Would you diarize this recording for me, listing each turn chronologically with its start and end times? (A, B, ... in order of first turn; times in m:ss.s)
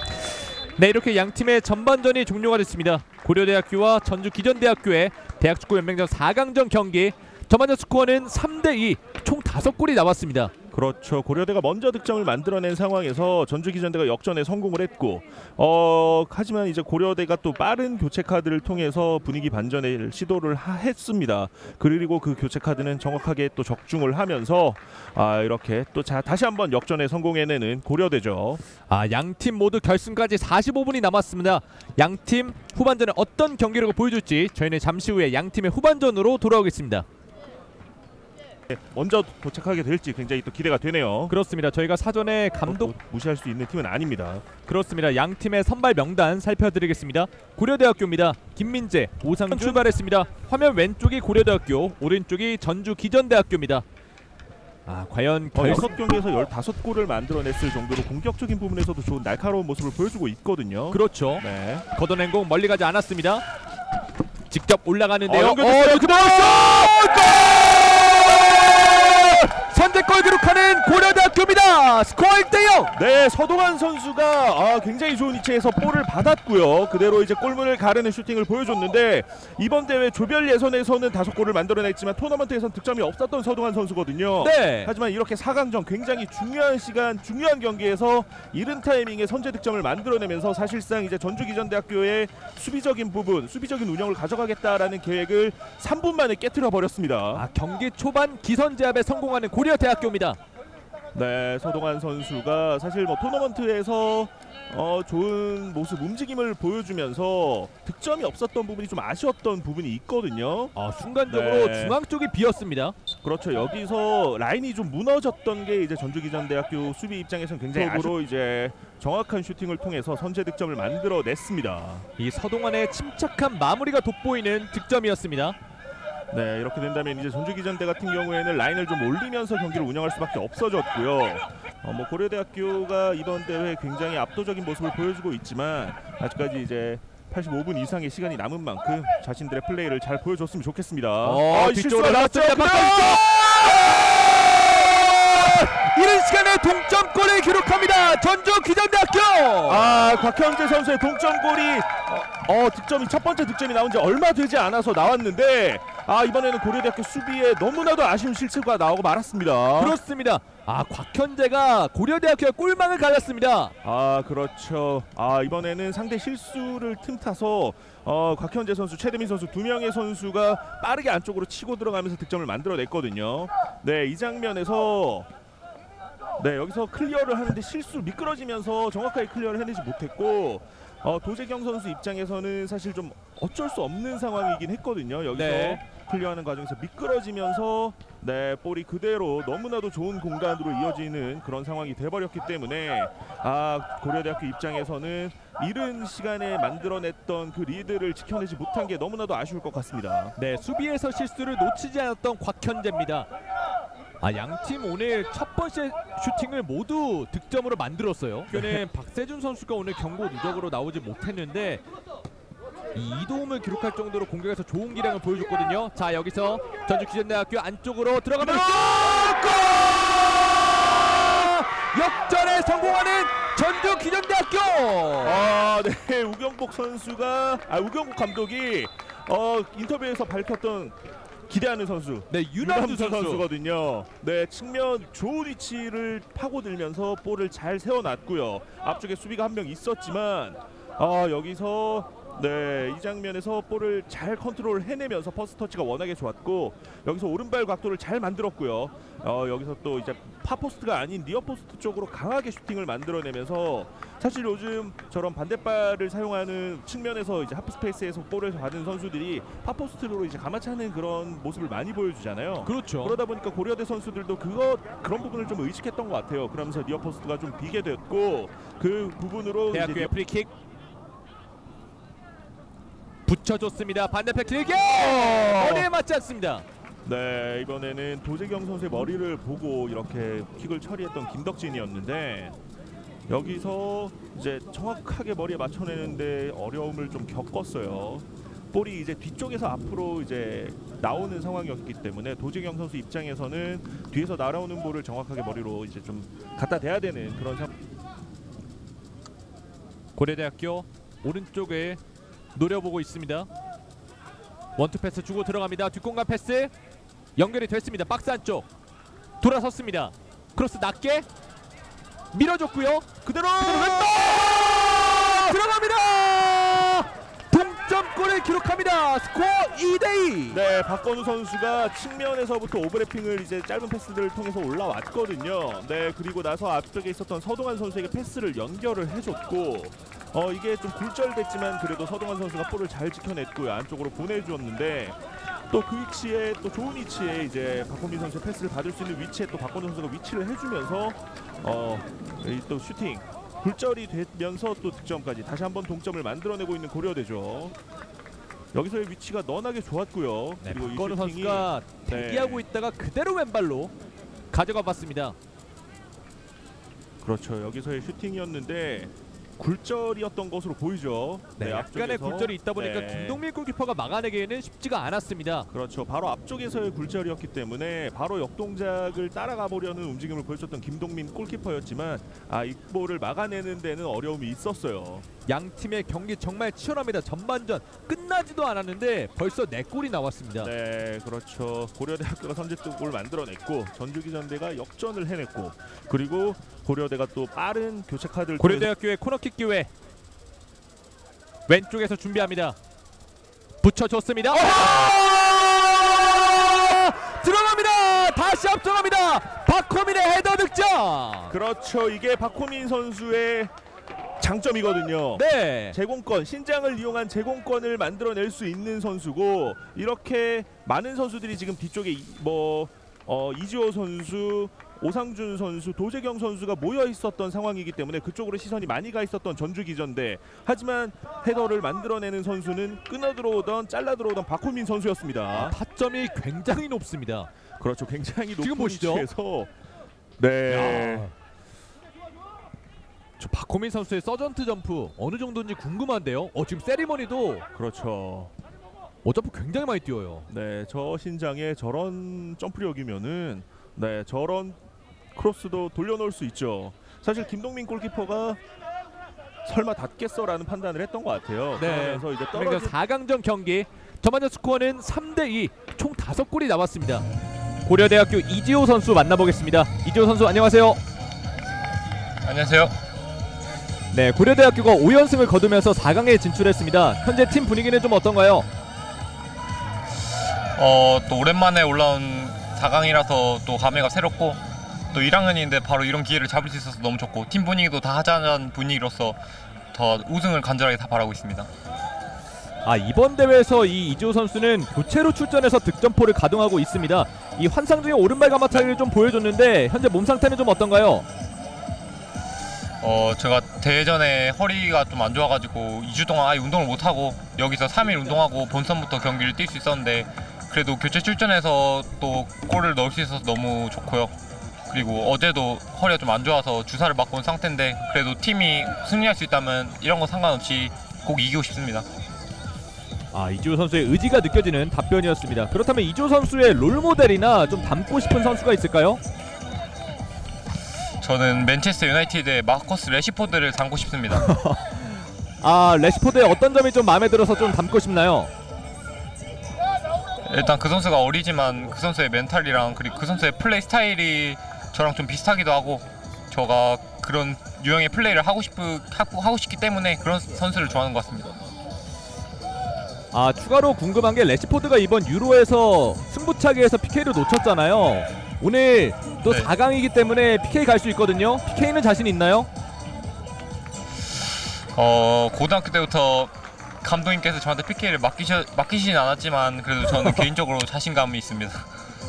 0:00.8-0:10.5 A
0:10.7-0:28.6 B
0:28.9-0:37.1 A
0:38.7-0:41.3 B
0:41.3-0:42.9 A
0:42.7-0:44.4 B
0:44.7-0:53.8 A
0:49.4-0:49.8 B
0:54.9-0:55.9 A
0:55.5-1:01.9 B
1:00.9-1:03.5 A
1:04.5-1:12.9 A
1:05.3-1:08.2 B
1:13.0-1:37.4 B
1:24.4-1:24.9 A
1:37.3-1:40.4 A
1:41.1-1:50.7 B
1:50.8-1:53.0 A
1:51.3-1:52.0 B
1:53.2-2:02.1 B
1:57.8-1:58.1 A
2:02.2-2:05.6 A
2:06.3-2:23.7 B
2:21.2-2:30.0 A
2:29.7-2:40.0 B
2:39.8-2:43.7 A
2:43.8-2:55.3 B
2:56.4-3:20.4 B
3:05.3-3:05.8 A
3:20.4-3:23.3 A
3:24.2-3:31.8 A
3:28.5-3:28.8 B
3:32.9-3:45.4 A
3:38.4-3:40.1 B
3:45.2-3:51.0 B
3:51.5-4:30.1 B
3:52.3-3:53.5 A
4:22.6-4:23.2 A
4:29.7-4:30.5 A
4:33.3-4:36.6 A
4:35.4-4:35.9 B
4:37.0-4:42.6 B
4:43.3-4:57.7 B
5:00.2-5:02.0 A
5:02.6-5:03.5 A
5:04.8-5:06.7 A
5:07.4-5:08.7 A
5:09.4-5:11.3 A
5:12.3-5:13.1 A
5:13.2-5:15.6 B
5:13.6-5:20.6 A
5:20.5-5:35.2 B
5:35.7-5:47.7 B
5:48.7-5:52.6 B
5:50.6-5:53.9 A
5:54.5-5:55.4 A
5:57.2-6:03.4 B
6:01.6-6:05.7 A
6:05.7-6:15.3 B
6:15.5-6:20.7 A
6:20.6-6:28.9 B
6:28.6-6:29.9 A
6:31.7-6:32.8 A
6:33.8-6:41.6 A
6:34.6-6:35.5 B
6:41.5-6:43.7 B
6:44.4-7:05.8 B
6:45.4-6:46.0 A
7:05.5-7:07.5 A
7:07.8-7:09.7 B
7:08.6-7:09.3 A
7:10.4-7:11.3 B
7:10.7-7:11.3 A
7:13.4-7:17.6 A
7:17.8-7:18.5 B
7:19.2-7:20.5 A
7:20.5-7:24.8 B
7:25.4-7:28.6 B
7:29.6-7:32.9 B
7:31.8-7:37.2 A
7:37.9-7:41.0 A
7:42.4-7:43.0 C
7:44.1-7:48.7 A
7:50.8-7:59.4 C
7:59.9-8:01.7 C
8:02.9-8:11.3 A
8:13.0-8:24.4 C
8:24.9-8:32.1 C
8:33.3-8:39.2 A
8:41.2-8:44.5 C
8:44.4-8:44.9 A
8:45.6-8:48.5 A
8:50.4-9:01.6 C
9:03.3-9:12.7 A
9:09.4-9:09.7 C
9:14.9-9:21.9 C